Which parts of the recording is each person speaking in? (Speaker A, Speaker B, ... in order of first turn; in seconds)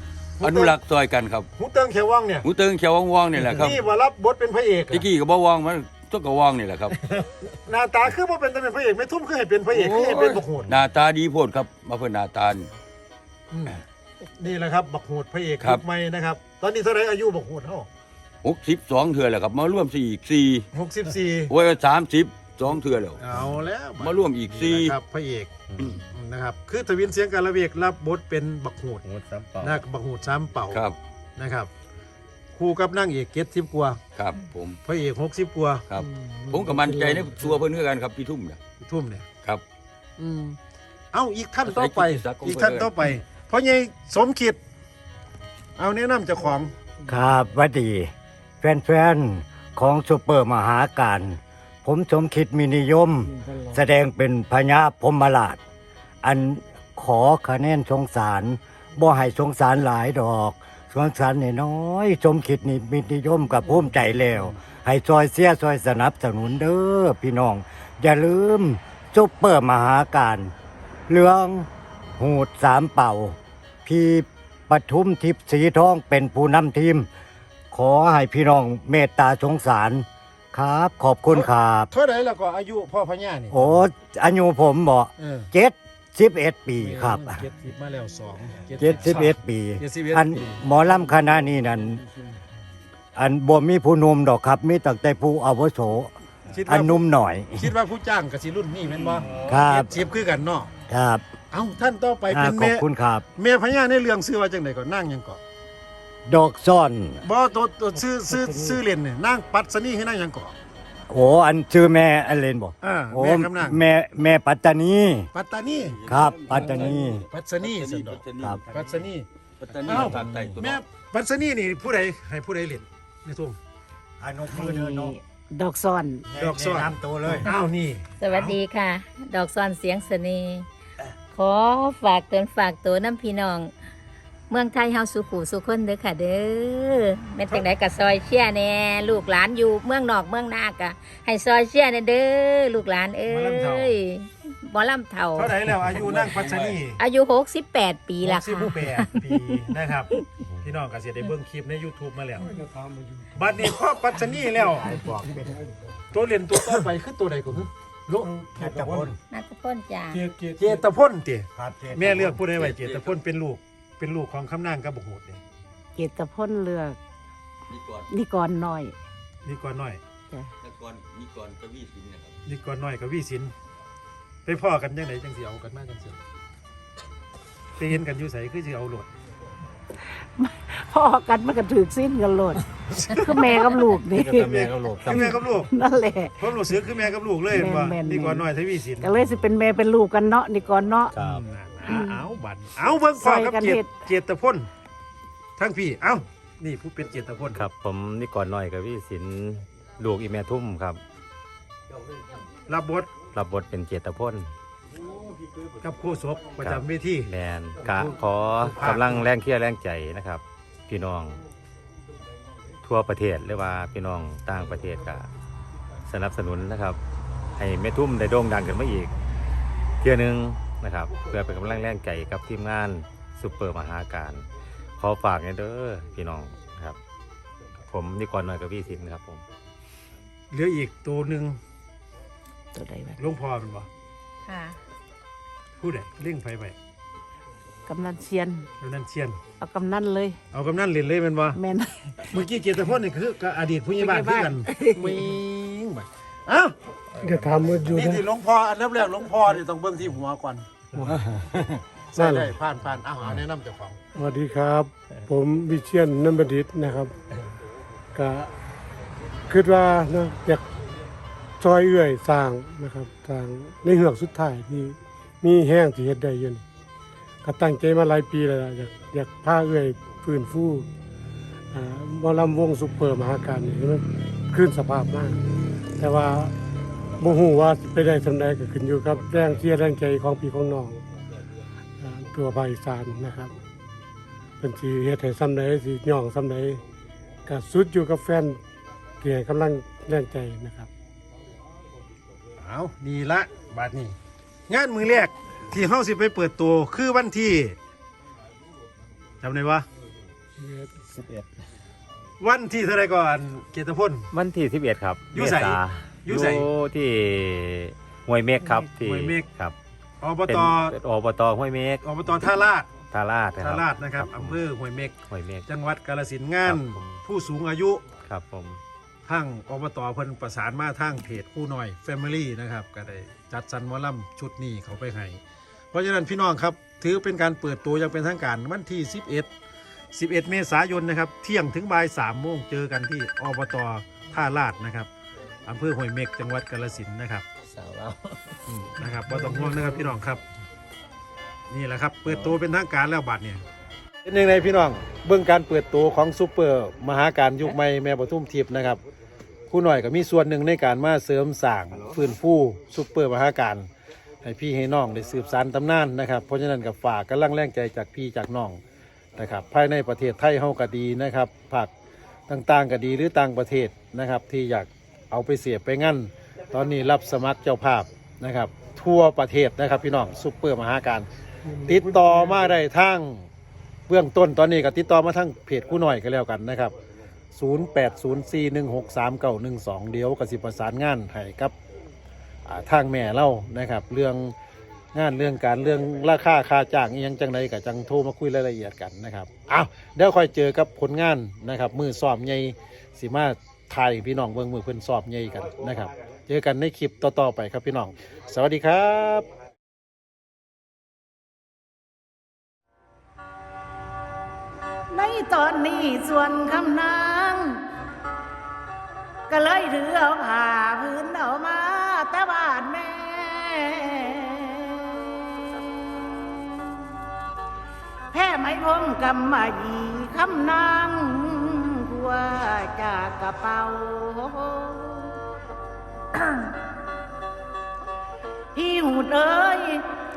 Speaker A: 0.4-0.8, 1.6-2.5, 3.4-5.1, 7.1-10.8, 13.5-13.8, 14.4-17.9, 20.7-21.5, 23.2-29.1, 29.6-30.9, 31.4-31.7, 32.5-34.0, 34.9-36.0, 38.8-39.3, 40.2-40.6, 41.1-44.6, 45.8-46.7, 81.3-83.8, 85.2-85.5, 86.8-90.6, 96.5-97.0, 97.6-100.7, 101.5-102.8, 103.4-105.4, 107.2-110.5, 112.8-113.8, 115.3-116.0, 116.5-119.3, 119.8-123.6, 126.4-128.6, 143.3-144.0, 145.4-147.0, 148.2-152.5, 153.3-155.4, 156.1-159.2, 160.6-165.4, 169.4-170.0, 172.5-173.5, 174.4-176.2, 177.8-179.1, 182.9-183.3, 184.4-185.7, 186.4-189.1, 191.2-194.7, 195.6-197.6, 202.7-203.1, 205.8-207.3, 207.9-209.3, 230.5-231.6, 233.2-233.9, 235.8-236.8, 238.8-239.4, 240.5-241.6, 242.3-246.8, 247.8-254.0, 292.6-294.2, 294.7-297.8, 299.4-299.9, 302.4-304.3, 305.3-306.7, 308.8-309.5, 310.2-311.0, 312.0-313.0, 313.6-318.0, 319.3-325.4, 325.9-329.5, 330.1-335.1, 335.7-337.5, 338.7-340.4, 341.7-343.6, 344.2-349.0, 349.7-353.9, 354.4-358.8, 359.4-361.9, 362.5-371.3, 371.8-373.5, 374.1-376.9, 377.6-381.7, 382.7-384.6, 385.1-399.5
Speaker B: 0.4-1.5, 2.4-3.8, 4.9-7.0, 9.7-12.7, 18.4-20.7, 21.5-23.2, 24.0-25.0, 30.7-31.0, 34.2-34.8, 35.9-38.6, 41.6-43.1, 115.8-119.1, 119.6-120.8, 145.9-146.8, 162.6-163.2, 167.7-168.1, 170.6-172.4
Speaker C: 29.1-29.8, 184.3-185.0, 191.2-191.5, 197.6-201.0, 203.3-204.5, 206.6-211.4, 212.8-215.3, 216.1-217.0, 217.6-219.1, 220.0-224.4, 225.0-227.0, 227.9-229.4, 304.3-309.8, 310.5-312.5, 313.0-314.6, 315.3-315.6, 316.6-317.2, 318.3-318.8
Speaker D: 36.2-36.6, 108.5-108.8, 160.1-160.8, 247.2-248.3, 250.9-251.3, 252.2-252.5, 254.2-257.1, 258.1-258.5, 259.5-260.7, 261.6-266.6, 267.4-270.9, 271.7-276.5, 277.2-281.0, 282.0-283.5, 284.6-286.8, 287.5-288.6, 289.2-290.9, 300.6-301.1, 371.7-372.6
Speaker E: 47.1-55.6, 56.2-70.5, 71.1-71.7, 72.2-77.1, 77.7-81.9, 83.5-87.4, 88.8-92.0, 93.2-96.1, 96.7-97.7, 99.4-100.0, 100.9-101.3, 102.3-103.3, 106.3-107.2, 111.1-115.3, 116.1-117.2, 119.9-120.5, 124.2-125.1, 126.3-127.5, 161.6-162.3
Speaker F: 124.5-126.3, 166.0-167.0, 168.1-169.0, 180.1-186.4, 187.5-188.5, 189.0-191.2, 191.8-192.2, 193.2-194.0, 232.8-233.2, 237.9-238.7, 239.6-240.4, 241.6-242.4, 244.0-245.2, 405.1-407.8, 409.5-416.8, 418.3-425.4, 428.7-430.1
Speaker G: 128.2-130.7, 131.3-133.7, 134.5-145.6, 147.0-150.2, 159.3-160.2, 234.5-234.8